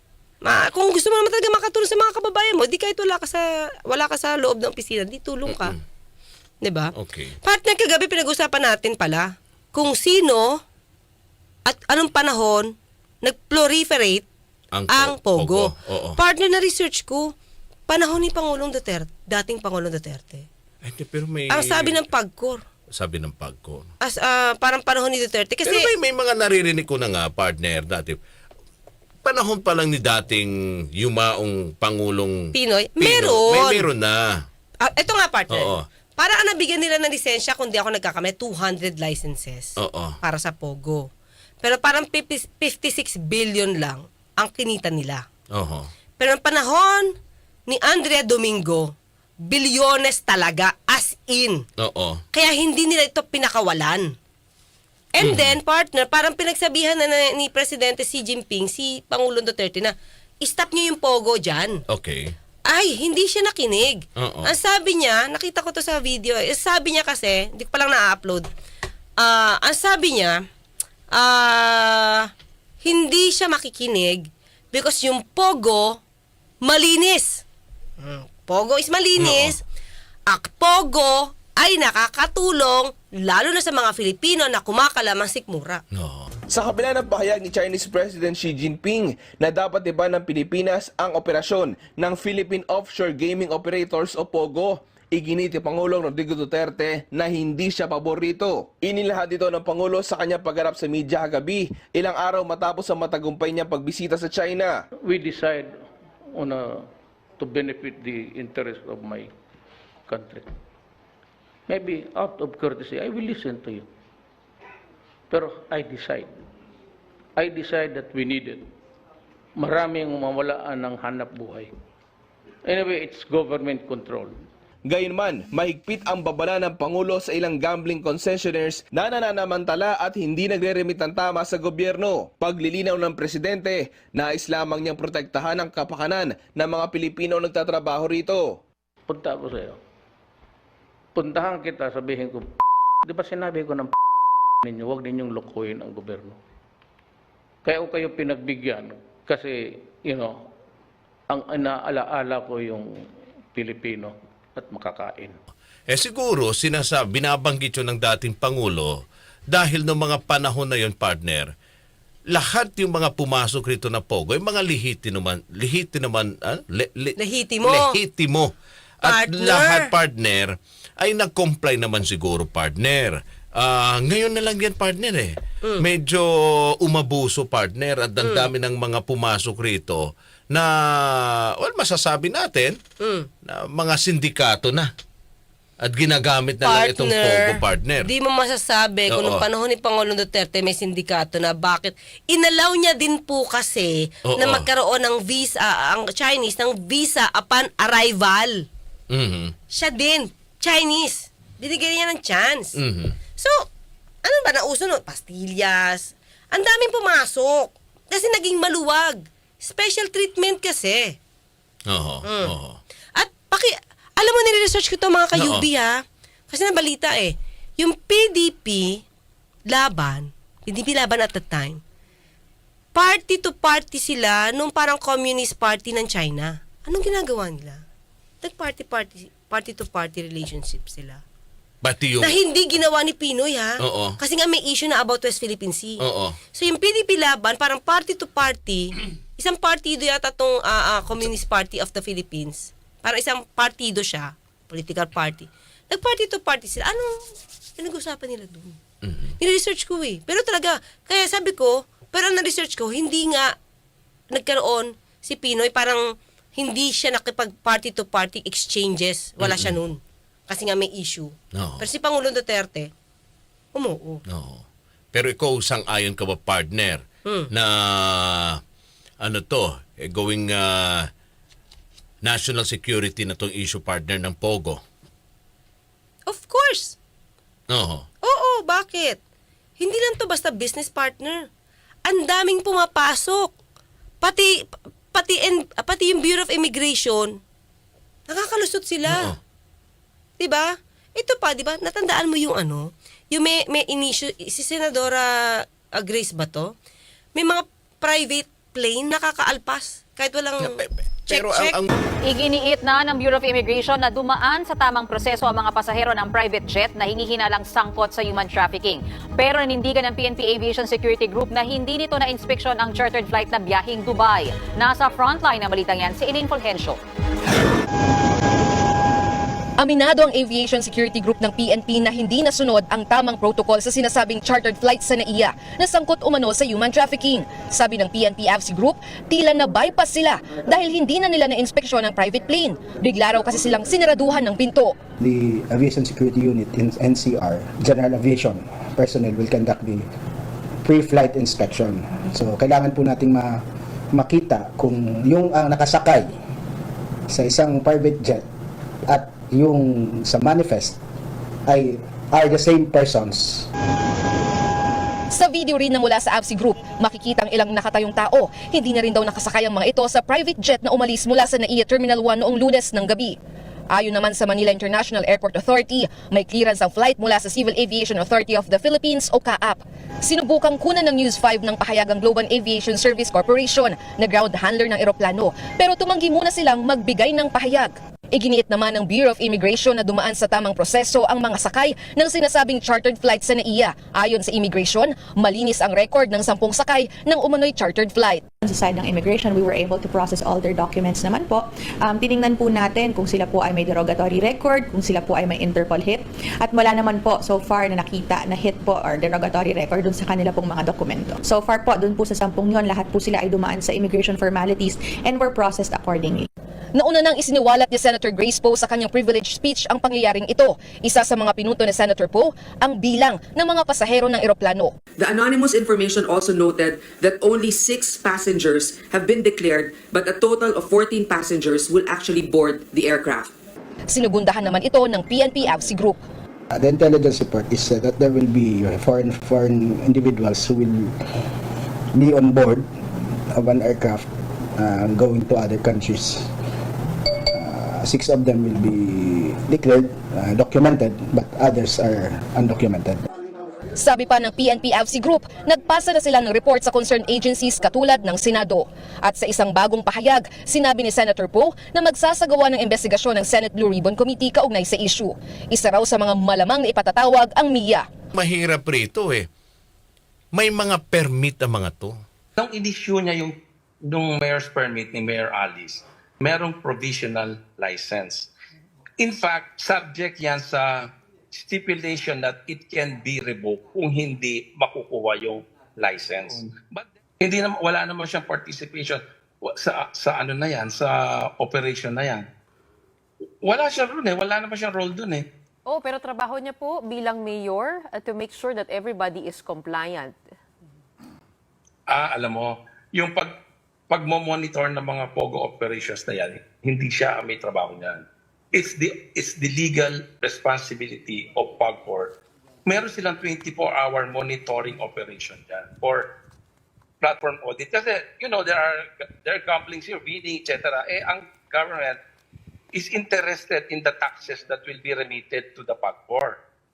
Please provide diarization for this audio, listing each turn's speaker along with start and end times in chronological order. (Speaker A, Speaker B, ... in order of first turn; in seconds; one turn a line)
Speaker A: 0.4-5.7
Speaker B: 5.5-5.8
Speaker A: 6.6-6.9
Speaker B: 6.9-7.3
Speaker A: 7.4-10.6
Speaker A: 11.7-14.2
Speaker B: 14.7-16.2
Speaker A: 14.9-17.3
Speaker A: 17.9-20.4
Speaker B: 20.8-22.1
Speaker A: 21.5-22.6
Speaker B: 22.9-23.9
Speaker A: 24.0-25.9
Speaker B: 25.6-28.2
Speaker B: 29.2-34.4
Speaker A: 32.5-33.9
Speaker A: 34.8-41.1
Speaker B: 35.5-35.9
Speaker B: 39.8-40.2
Speaker A: 41.6-45.2
Speaker B: 45.5-45.9
Speaker A: 46.2-47.1
Speaker A: 47.7-51.6
Speaker B: 51.8-52.2
Speaker A: 52.3-54.1
Speaker A: 55.1-61.8
Speaker B: 55.2-55.6
Speaker B: 61.9-62.3
Speaker A: 62.7-68.5
Speaker B: 64.2-64.5
Speaker A: 69.2-70.4
Speaker A: 71.1-72.3
Speaker A: 72.8-76.0
Speaker A: 76.6-77.4
Speaker A: 78.0-79.6
Speaker B: 79.2-79.6
Speaker A: 80.3-85.8
Speaker B: 85.9-86.3
Speaker C: 86.5-104.7
Speaker D: 105.0-105.7
Speaker D: 106.3-106.9
Speaker D: 107.4-109.3
Speaker D: 110.1-110.5
Speaker D: 111.7-113.9
Speaker D: 115.3-116.4
Speaker D: 117.4-118.7
Speaker D: 119.6-121.7
Speaker D: 122.6-124.4
Speaker C: 124.9-138.6
Speaker D: 139.1-139.8
Speaker D: 141.1-142.5
Speaker D: 143.0-143.9
Speaker D: 144.6-146.4
Speaker D: 147.6-150.5
Speaker D: 151.3-152.9
Speaker D: 153.5-155.4
Speaker B: 155.9-159.0
Speaker B: 159.5-161.5
Speaker B: 162.3-168.5
Speaker A: 167.2-167.9
Speaker B: 169.0-182.8
Speaker A: 169.1-169.9
Speaker A: 178.2-178.4
Speaker A: 183.0-183.3
Speaker B: 183.4-184.9
Speaker B: 185.8-188.1
Speaker A: 186.6-198.6
Speaker B: 189.1-189.4
Speaker B: 194.3-194.7
Speaker B: 199.1-199.5
Speaker A: 199.7-202.8
Speaker B: 202.8-203.2
Speaker A: 203.4-203.6
Speaker A: 204.2-211.2
Speaker B: 211.9-212.8
Speaker A: 212.2-212.5
Speaker A: 213.2-219.0
Speaker B: 215.3-215.7
Speaker A: 219.7-221.8
Speaker A: 222.9-227.8
Speaker A: 228.4-231.2
Speaker B: 231.8-232.4
Speaker A: 232.2-236.0
Speaker B: 233.8-234.2
Speaker B: 236.0-236.4
Speaker A: 236.5-248.8
Speaker B: 249.0-249.3
Speaker A: 249.4-253.5
Speaker A: 254.3-262.9
Speaker B: 259.4-259.7
Speaker B: 261.5-261.9
Speaker A: 263.7-264.2
Speaker B: 264.3-268.6
Speaker B: 269.2-271.1
Speaker B: 272.2-274.8
Speaker A: 276.3-277.0
Speaker B: 277.7-278.1
Speaker A: 278.2-279.2
Speaker A: 279.8-281.5
Speaker A: 282.1-283.5
Speaker A: 284.2-287.4
Speaker A: 288.3-289.3
Speaker B: 289.1-289.4
Speaker A: 290.4-296.7
Speaker A: 297.3-300.8
Speaker B: 300.6-301.9
Speaker A: 301.3-301.8
Speaker E: 302.3-317.0
Speaker F: 319.8-335.0
Speaker G: 335.2-340.1
Speaker G: 340.8-346.3
Speaker G: 347.3-348.4
Speaker G: 349.1-351.0
Speaker G: 351.7-353.7
Speaker F: 355.3-363.4
Speaker F: 363.9-388.4
Speaker H: 388.6-406.5
Speaker F: 406.9-414.9
Speaker I: 415.2-423.5
Speaker F: 424.1-426.2
Speaker G: 426.7-431.1
Speaker G: 432.1-432.9
Speaker G: 433.5-436.5
Speaker G: 437.5-443.3
Speaker F: 443.9-458.1
Speaker B: 458.3-459.4
Speaker B: 460.5-462.2
Speaker J: 462.6-468.5
Speaker J: 469.2-482.4
Speaker J: 483.6-485.4
Speaker K: 485.9-490.4
Speaker J: 492.1-493.5
Speaker J: 494.1-502.3
Speaker J: 502.9-506.3
Speaker J: 507.2-512.2
Speaker J: 512.9-516.6